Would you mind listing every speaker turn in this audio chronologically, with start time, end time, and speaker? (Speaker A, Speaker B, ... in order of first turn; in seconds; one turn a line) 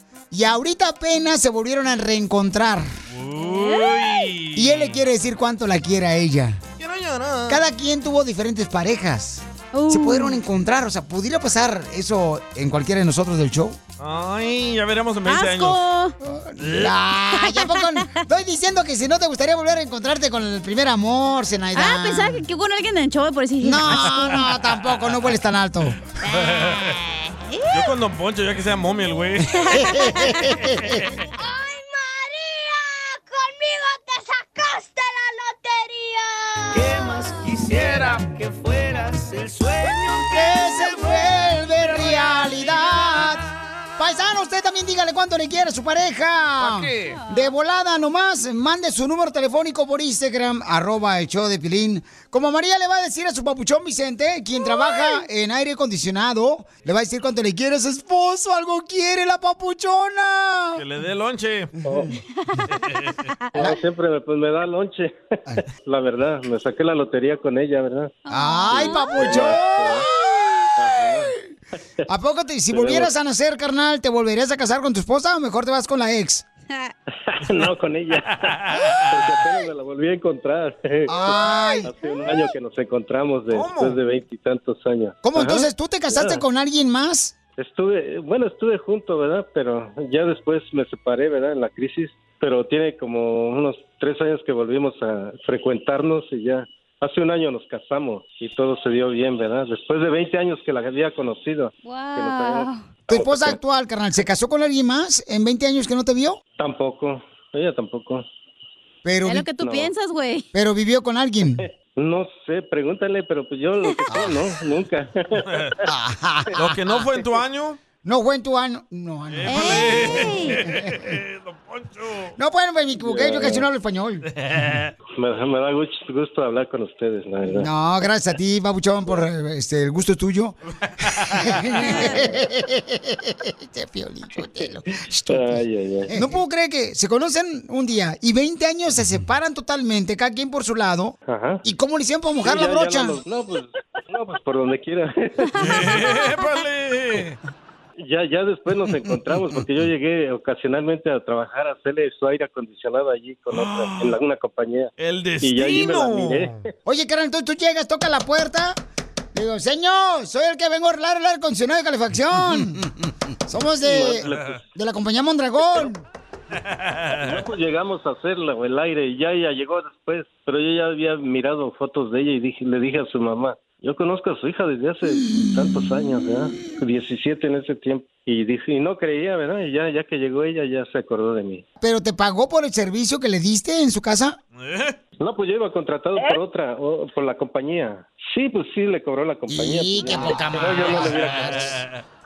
Speaker A: 0.3-2.9
Speaker B: 3.1-5.0
Speaker C: 3.4-4.0
Speaker A: 4.5-6.6
Speaker B: 6.8-7.6
Speaker A: 7.5-13.8
Speaker C: 9.7-10.4
Speaker B: 14.0-15.8
Speaker C: 15.3-16.1
Speaker A: 16.2-22.4
Speaker B: 16.6-16.9
Speaker C: 17.4-17.9
Speaker C: 21.8-24.5
Speaker A: 23.6-26.0
Speaker B: 26.4-26.9
Speaker D: 26.5-27.0
Speaker B: 27.7-29.6
Speaker A: 29.6-31.0
Speaker C: 29.8-30.2
Speaker D: 31.4-37.2
Speaker E: 36.7-41.2
Speaker A: 40.3-60.8
Speaker E: 41.8-42.2
Speaker E: 46.6-47.2
Speaker C: 54.9-55.1
Speaker B: 60.8-61.7
Speaker F: 61.9-62.1
Speaker B: 62.8-63.1
Speaker F: 63.5-65.3
Speaker F: 65.9-68.1
Speaker C: 68.3-69.4
Speaker A: 68.3-71.3
Speaker F: 68.7-70.1
Speaker F: 70.8-71.3
Speaker A: 72.1-76.5
Speaker F: 72.7-73.1
Speaker F: 77.3-78.5
Speaker B: 78.3-79.2
Speaker F: 79.1-86.4
Speaker A: 81.1-81.9
Speaker B: 83.5-84.0
Speaker A: 85.2-87.3
Speaker F: 87.6-103.6
Speaker C: 101.8-102.8
Speaker A: 103.1-106.4
Speaker F: 106.6-108.2
Speaker A: 109.0-109.5
Speaker C: 109.2-110.5
Speaker F: 109.6-109.9
Speaker A: 110.5-111.7
Speaker F: 112.0-115.6
Speaker A: 114.1-114.4
Speaker B: 115.5-115.8
Speaker A: 115.8-116.5
Speaker B: 116.5-117.8
Speaker A: 118.0-120.9
Speaker B: 119.3-122.3
Speaker C: 119.5-120.6
Speaker A: 122.4-124.3
Speaker F: 123.0-123.7
Speaker B: 124.4-124.9
Speaker F: 125.2-127.7
Speaker A: 127.4-143.2
Speaker B: 131.0-131.7
Speaker C: 131.8-132.2
Speaker F: 135.3-136.3
Speaker F: 141.3-141.6
Speaker F: 142.4-145.6
Speaker B: 145.6-147.4
Speaker F: 148.0-154.9
Speaker B: 153.5-154.2
Speaker B: 155.0-156.6
Speaker F: 155.4-156.6
Speaker A: 156.8-158.8
Speaker A: 159.3-162.9
Speaker A: 163.5-166.0
Speaker F: 163.8-164.6
Speaker B: 164.2-164.5
Speaker B: 166.7-167.4
Speaker F: 167.1-181.6
Speaker A: 181.8-184.4
Speaker B: 184.6-185.0
Speaker F: 185.2-191.7
Speaker A: 189.5-191.8
Speaker B: 191.3-192.0